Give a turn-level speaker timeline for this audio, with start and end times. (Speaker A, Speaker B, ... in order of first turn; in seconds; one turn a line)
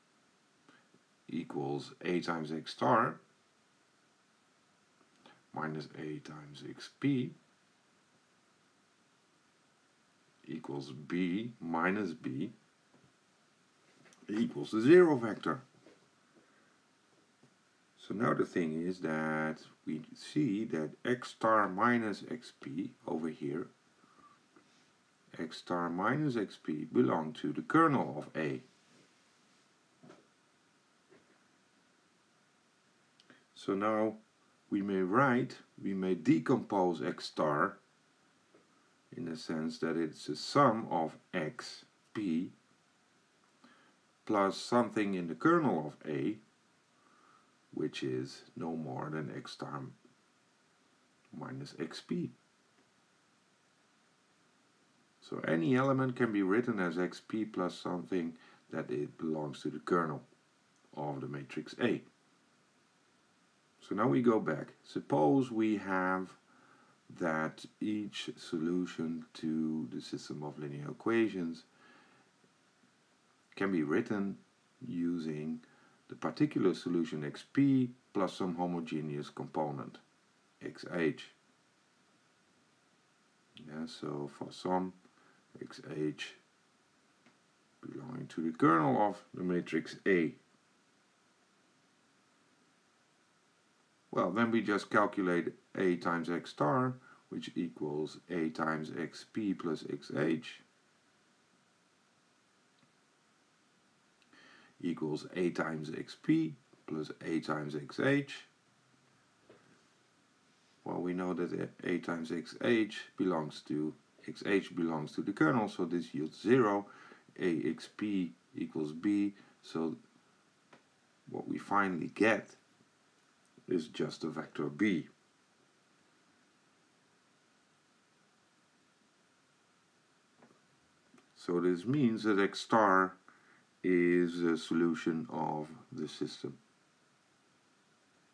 Speaker A: 1.3-3.2
Speaker A: 5.5-7.3
Speaker A: 10.4-12.5
Speaker A: 14.3-15.6
Speaker A: 18.0-23.7
Speaker A: 25.3-28.6
Speaker A: 33.5-37.8
Speaker A: 39.1-42.5
Speaker A: 44.2-46.4
Speaker A: 47.7-50.0
Speaker A: 51.3-52.4
Speaker A: 55.2-60.3
Speaker A: 60.9-62.1
Speaker A: 63.8-66.4
Speaker A: 67.1-71.7
Speaker A: 73.5-80.0
Speaker A: 80.6-81.4
Speaker A: 83.6-85.0
Speaker A: 85.5-86.4
Speaker A: 87.8-90.4
Speaker A: 94.1-100.7
Speaker A: 104.8-108.5
Speaker A: 110.8-120.0
Speaker A: 121.3-122.6
Speaker A: 123.7-125.1
Speaker A: 131.3-133.2
Speaker A: 133.8-136.6